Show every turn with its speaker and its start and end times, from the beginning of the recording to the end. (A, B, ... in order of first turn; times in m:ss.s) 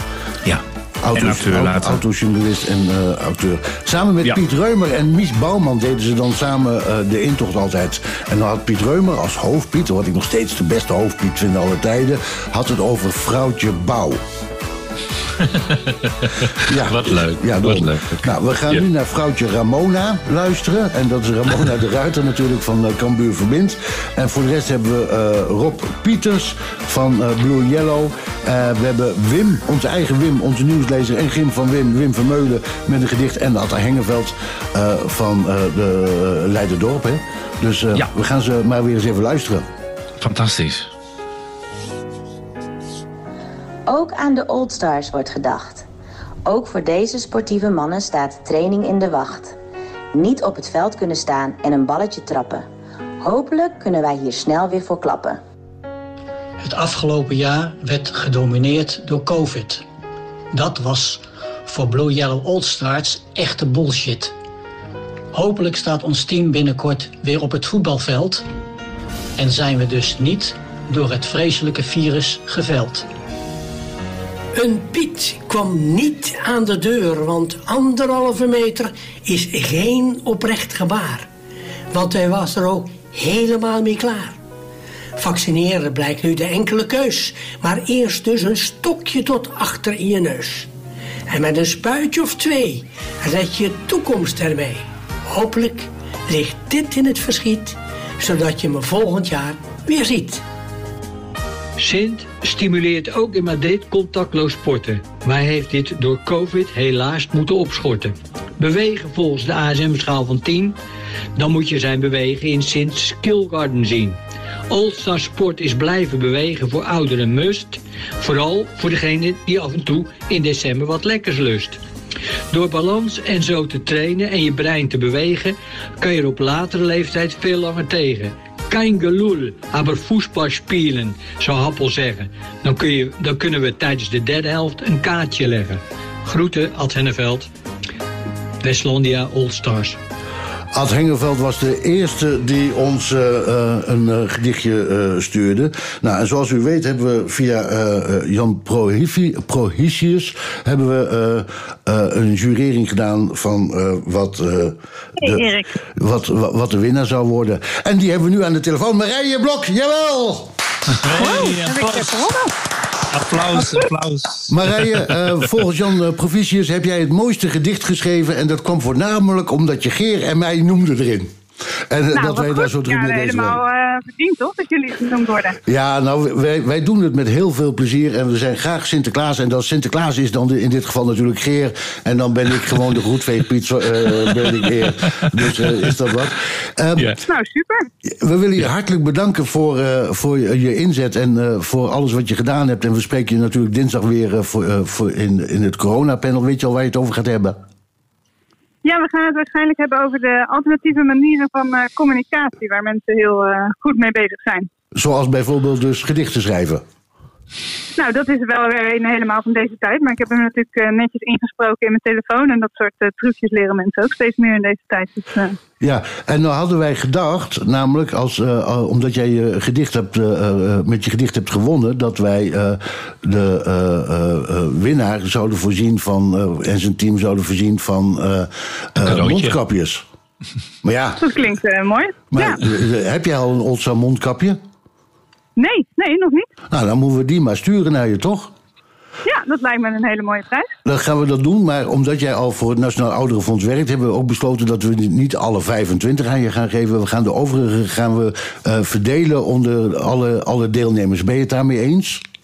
0:00.4-0:02.0 A
0:01.0-0:14.2 B
0:15.4-0:18.8 A
0:16.7-0:39.7 B
0:40.2-0:40.9 A
0:43.9-0:45.8 C
0:46.5-0:49.6 C
0:50.1-0:52.7 C
0:53.2-0:55.4 C
0:56.6-0:59.8 D
1:00.5-1:04.4 D
1:05.3-1:08.4 D
1:09.4-1:13.1 D
1:14.5-1:21.3 E
1:21.9-1:24.4 E
1:25.2-1:30.7 E
1:31.3-1:40.4 E
1:41.8-1:48.1 F
1:48.6-1:50.5 F
1:51.4-1:54.1 F
1:54.7-1:57.7 F
1:58.2-1:59.0 F
2:00.2-2:01.4 F
2:02.5-2:05.4 F
2:06.0-2:15.7 F
2:16.3-2:17.4 F
2:18.6-2:19.8 F
2:20.7-2:40.5 B
2:35.3-2:35.5 G
2:40.9-2:42.3 A
2:41.3-2:42.4 G
2:43.1-2:45.1 A
2:44.5-2:51.3 B
2:51.9-2:53.6 B
2:52.2-2:55.5 G
2:55.6-3:07.2 B
3:07.3-3:07.8 G
3:08.1-3:17.6 B
3:18.8-3:24.7 G
3:25.0-3:26.8 B
3:28.0-3:35.6 G
3:35.8-3:50.0 B
3:49.0-3:49.6 A
3:50.8-3:51.3 B
3:51.2-3:52.5 G
3:52.3-3:54.6 B
3:55.6-3:56.5 G
3:56.7-3:58.5 B
3:59.3-4:00.7 G
4:00.8-4:12.2 B